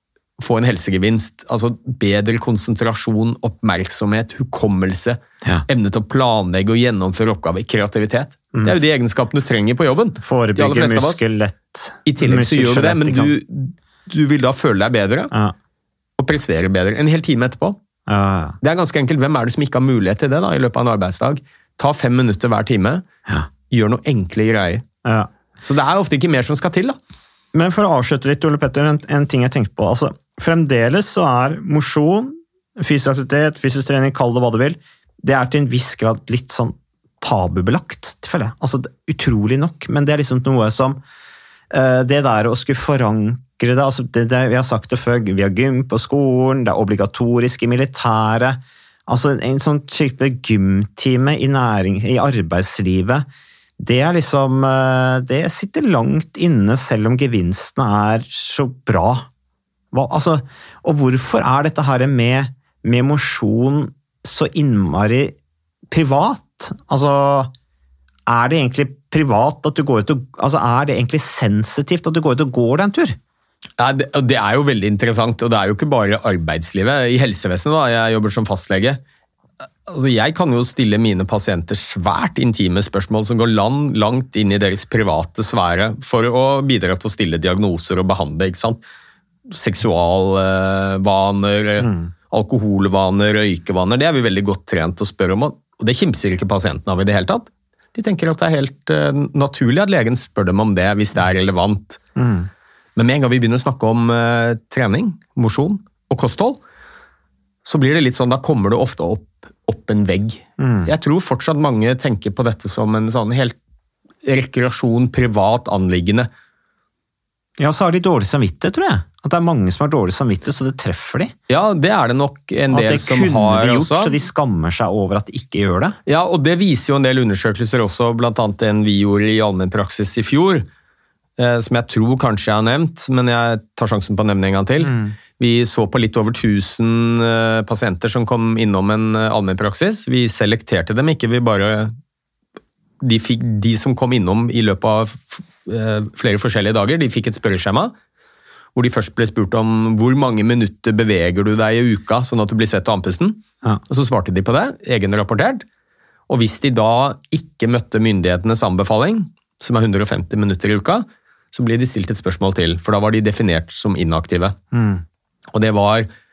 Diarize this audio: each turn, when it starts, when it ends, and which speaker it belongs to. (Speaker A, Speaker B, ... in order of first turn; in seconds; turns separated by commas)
Speaker A: 0.4-11.2, Speaker B: 10.2-13.3, Speaker A: 12.1-15.3, Speaker A: 16.2-17.8, Speaker B: 18.1-18.6, Speaker A: 18.6-23.0, Speaker A: 23.7-24.8, Speaker A: 25.6-27.0, Speaker B: 27.5-41.0, Speaker B: 41.7-53.3, Speaker B: 53.8-59.3, Speaker B: 59.9-65.3, Speaker B: 65.9-67.5, Speaker B: 68.3-73.2, Speaker A: 73.8-79.0, Speaker A: 79.9-88.8, Speaker A: 89.5-102.0, Speaker B: 91.8-92.1, Speaker B: 102.2-102.5, Speaker A: 103.0-106.6, Speaker A: 107.7-113.6, Speaker B: 110.6-110.9, Speaker A: 114.2-116.3, Speaker B: 117.6-121.3, Speaker A: 121.5-124.2, Speaker B: 122.7-126.0, Speaker A: 126.1-130.7, Speaker A: 131.4-141.9, Speaker B: 134.8-135.2, Speaker A: 143.0-147.9, Speaker A: 148.8-155.7, Speaker A: 156.3-164.6, Speaker B: 164.7-165.0, Speaker A: 165.5-166.1